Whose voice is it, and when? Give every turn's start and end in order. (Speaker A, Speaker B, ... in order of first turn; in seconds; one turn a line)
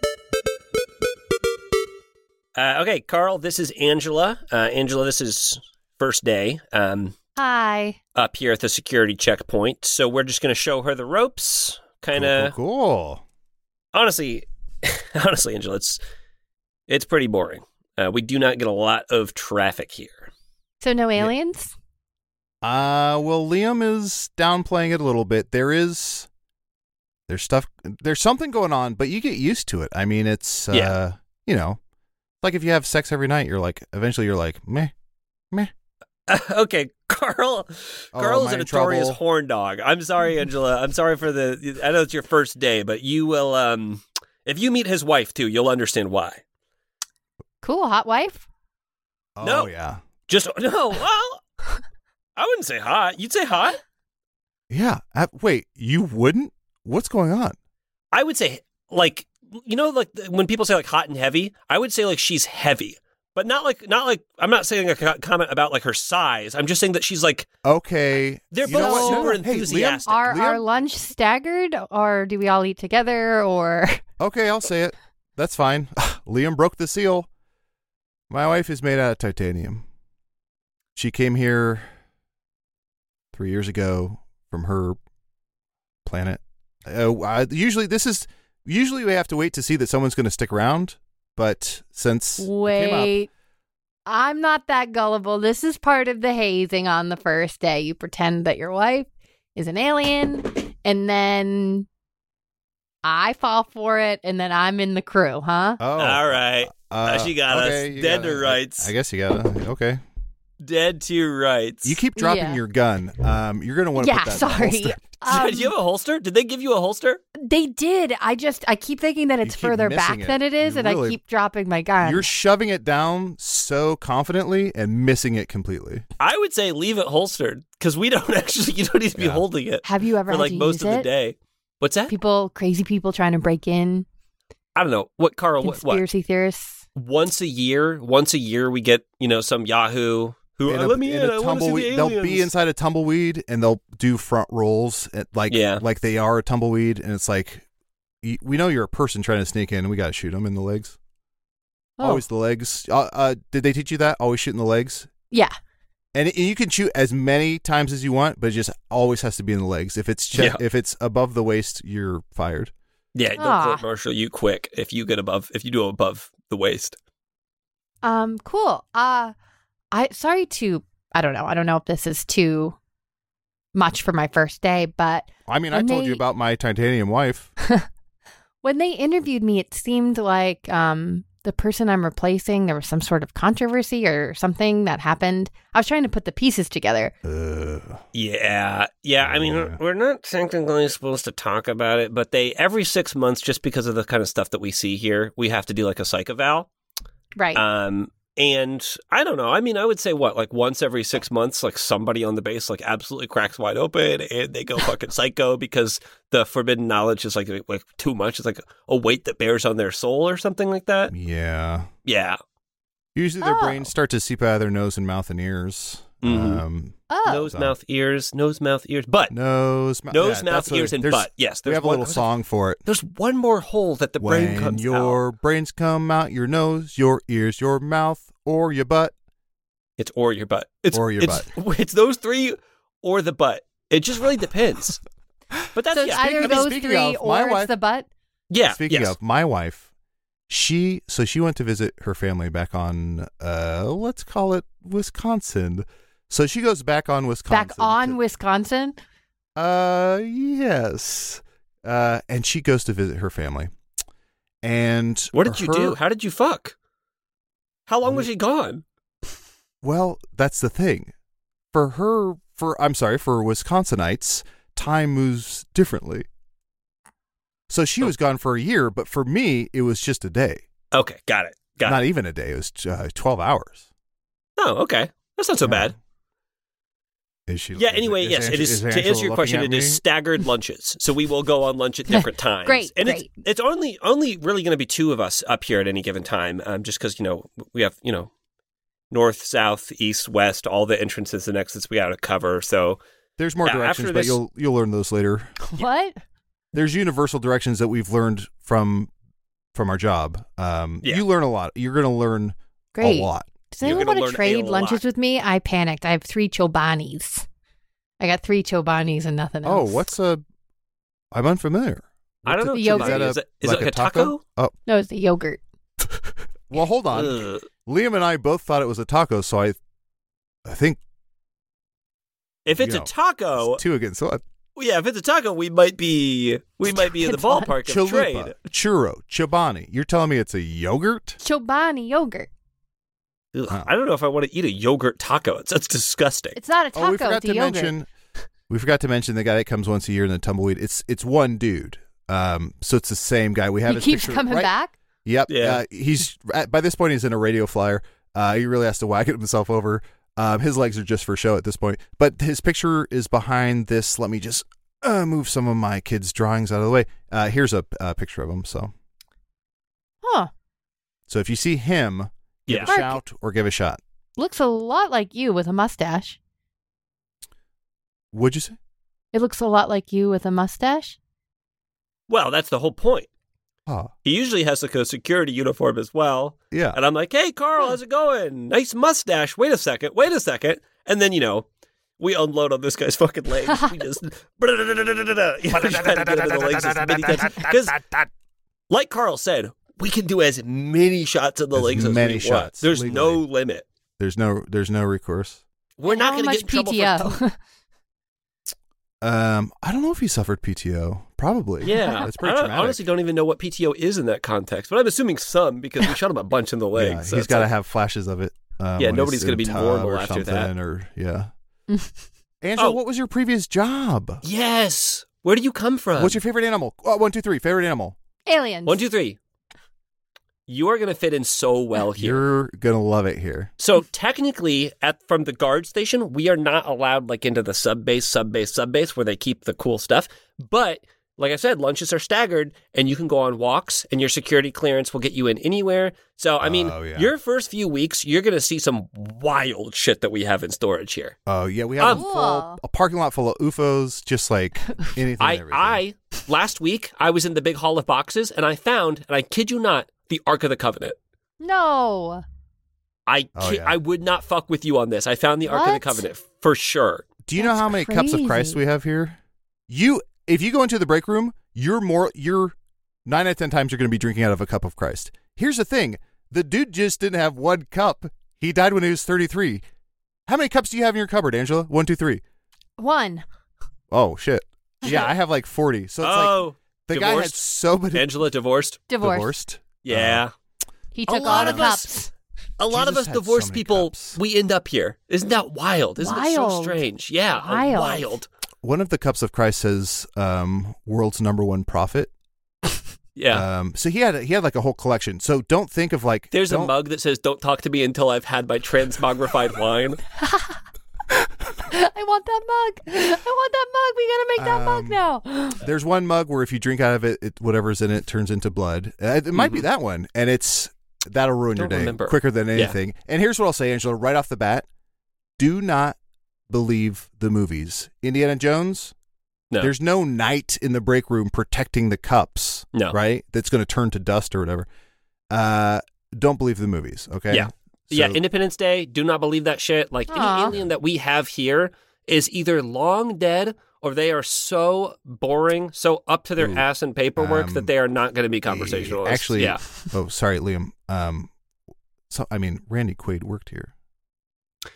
Speaker A: 2.5-7.2
Speaker B: 7.4-8.0
Speaker A: 8.1-12.5
Speaker C: 12.1-13.2
Speaker A: 13.9-16.0
Speaker A: 16.9-20.3
Speaker B: 20.8-21.7
Speaker C: 22.6-26.3
Speaker C: 27.3-31.8
Speaker A: 30.7-30.9
Speaker C: 32.4-34.9
Speaker A: 36.3-46.4
Speaker C: 38.1-39.2
Speaker B: 47.6-48.4
Speaker C: 49.4-50.0
Speaker A: 49.4-49.7
Speaker A: 50.3-51.4
Speaker A: 52.4-53.8
Speaker C: 54.7-57.5
Speaker A: 58.1-67.5
Speaker C: 67.6-70.7
Speaker A: 68.5-70.2
Speaker B: 68.6-69.5
Speaker B: 70.0-74.0
Speaker C: 74.2-77.3
Speaker C: 78.3-79.8
Speaker C: 81.0-81.9
Speaker C: 83.3-85.0
Speaker C: 86.0-93.2
Speaker B: 92.4-93.3
Speaker B: 94.0-101.8
Speaker B: 103.0-105.8
Speaker C: 105.8-110.0
Speaker A: 106.0-108.9
Speaker A: 110.6-112.0
Speaker C: 111.8-115.1
Speaker B: 112.2-112.6
Speaker B: 113.9-115.7
Speaker A: 115.2-117.2
Speaker B: 117.4-122.3
Speaker C: 119.4-121.2
Speaker C: 122.0-126.0
Speaker A: 126.2-132.1
Speaker C: 129.2-129.4
Speaker B: 129.8-131.1
Speaker B: 132.1-134.1
Speaker A: 134.7-136.0
Speaker B: 135.6-136.8
Speaker A: 136.9-142.5
Speaker C: 140.7-147.6
Speaker A: 145.5-145.8
Speaker C: 148.2-150.9
Speaker B: 152.0-152.2
Speaker C: 152.0-155.1
Speaker C: 156.1-162.7
Speaker A: 160.3-160.6
Speaker A: 163.1-167.0
Speaker B: 163.4-163.8
Speaker B: 168.0-169.3
Speaker B: 169.9-172.8
Speaker B: 173.7-176.2
Speaker C: 175.5-177.5
Speaker B: 178.6-187.1
Speaker C: 187.2-188.0
Speaker A: 188.1-196.7
Speaker C: 189.2-189.8
Speaker B: 197.3-197.6
Speaker A: 197.5-211.1
Speaker C: 211.1-211.9
Speaker A: 212.1-212.4
Speaker C: 213.1-217.8
Speaker B: 213.4-213.9
Speaker A: 216.2-216.6
Speaker B: 217.1-217.5
Speaker A: 217.2-219.3
Speaker C: 219.3-222.8
Speaker A: 220.1-222.3
Speaker A: 222.8-225.2
Speaker C: 224.2-229.1
Speaker A: 230.0-235.0
Speaker C: 230.9-231.5
Speaker A: 235.7-236.7
Speaker B: 235.9-238.1
Speaker C: 236.1-237.7
Speaker A: 238.5-239.2
Speaker C: 238.7-239.9
Speaker C: 240.5-248.2
Speaker B: 247.5-249.0
Speaker C: 249.6-253.7
Speaker C: 254.6-256.0
Speaker A: 255.3-256.7
Speaker A: 257.9-258.8
Speaker C: 259.8-261.1
Speaker C: 261.7-266.2
Speaker C: 267.7-270.6
Speaker A: 270.9-272.0
Speaker C: 271.8-273.9
Speaker A: 274.6-275.9
Speaker C: 275.6-275.9
Speaker C: 277.5-280.0
Speaker A: 277.8-288.3
Speaker B: 282.1-283.3
Speaker A: 289.1-293.0
Speaker C: 293.4-295.5
Speaker A: 293.6-294.4
Speaker B: 295.6-296.2
Speaker C: 296.7-299.1
Speaker C: 299.7-303.9
Speaker B: 302.9-307.4
Speaker A: 303.8-305.0
Speaker B: 308.2-310.1
Speaker C: 309.6-310.4
Speaker C: 311.3-314.7
Speaker A: 312.4-314.4
Speaker B: 312.7-313.3
Speaker B: 314.9-315.6
Speaker C: 316.1-319.8
Speaker A: 317.1-317.6
Speaker C: 320.6-321.0
Speaker A: 322.6-323.8
Speaker C: 322.7-324.4
Speaker A: 324.8-328.5
Speaker B: 327.0-327.7
Speaker C: 327.9-331.4
Speaker B: 331.4-332.5
Speaker A: 333.5-336.6
Speaker B: 336.6-338.0
Speaker C: 336.9-338.1
Speaker C: 338.7-344.7
Speaker B: 343.9-344.9
Speaker C: 345.2-358.9
Speaker A: 345.5-345.8
Speaker B: 360.2-360.5
Speaker C: 361.3-364.0
Speaker A: 362.7-363.0
Speaker B: 362.8-363.2
Speaker B: 364.4-366.4
Speaker C: 368.3-368.8
Speaker B: 369.3-371.2
Speaker A: 372.3-373.3
Speaker C: 373.9-374.1
Speaker A: 374.2-381.7
Speaker C: 376.7-377.0
Speaker A: 382.2-388.3
Speaker A: 388.9-393.8
Speaker C: 391.8-393.4
Speaker C: 394.2-395.6
Speaker A: 396.0-397.4
Speaker B: 396.1-397.6
Speaker C: 399.2-403.0
Speaker A: 401.8-407.7
Speaker C: 406.9-411.5
Speaker A: 409.0-410.7
Speaker C: 412.6-414.4
Speaker A: 414.4-416.4
Speaker C: 416.1-418.1
Speaker B: 418.4-419.0
Speaker A: 418.9-419.4
Speaker A: 420.7-422.4
Speaker C: 422.1-423.7
Speaker A: 423.8-441.4
Speaker C: 436.6-437.3
Speaker C: 441.5-446.0
Speaker A: 442.0-442.2
Speaker B: 442.1-442.8
Speaker A: 445.4-451.2
Speaker B: 451.6-452.4
Speaker A: 453.3-457.3
Speaker C: 453.6-454.0
Speaker B: 455.6-456.3
Speaker C: 457.4-459.4
Speaker B: 457.6-458.8
Speaker C: 459.9-469.8
Speaker C: 470.5-472.4
Speaker B: 473.0-473.4
Speaker C: 474.1-478.4
Speaker A: 475.0-475.3
Speaker A: 476.2-479.0
Speaker B: 479.1-479.6
Speaker C: 479.2-480.4
Speaker A: 480.0-480.5
Speaker B: 481.1-482.3
Speaker A: 481.3-482.1
Speaker C: 481.3-481.9
Speaker A: 482.8-488.5
Speaker C: 482.9-484.4
Speaker B: 486.2-488.4
Speaker C: 488.8-492.3
Speaker A: 493.4-493.6
Speaker C: 493.5-496.9
Speaker A: 496.5-500.2
Speaker B: 500.4-500.8
Speaker B: 501.8-505.8
Speaker C: 504.6-505.3
Speaker C: 505.8-514.9
Speaker A: 509.5-509.8
Speaker A: 511.8-513.0
Speaker C: 515.6-516.2
Speaker C: 516.7-519.1
Speaker C: 519.8-524.9
Speaker C: 525.5-528.4
Speaker A: 527.5-539.8
Speaker B: 530.3-530.7
Speaker C: 536.6-536.8
Speaker C: 537.4-537.9
Speaker C: 538.6-541.5
Speaker C: 542.3-543.9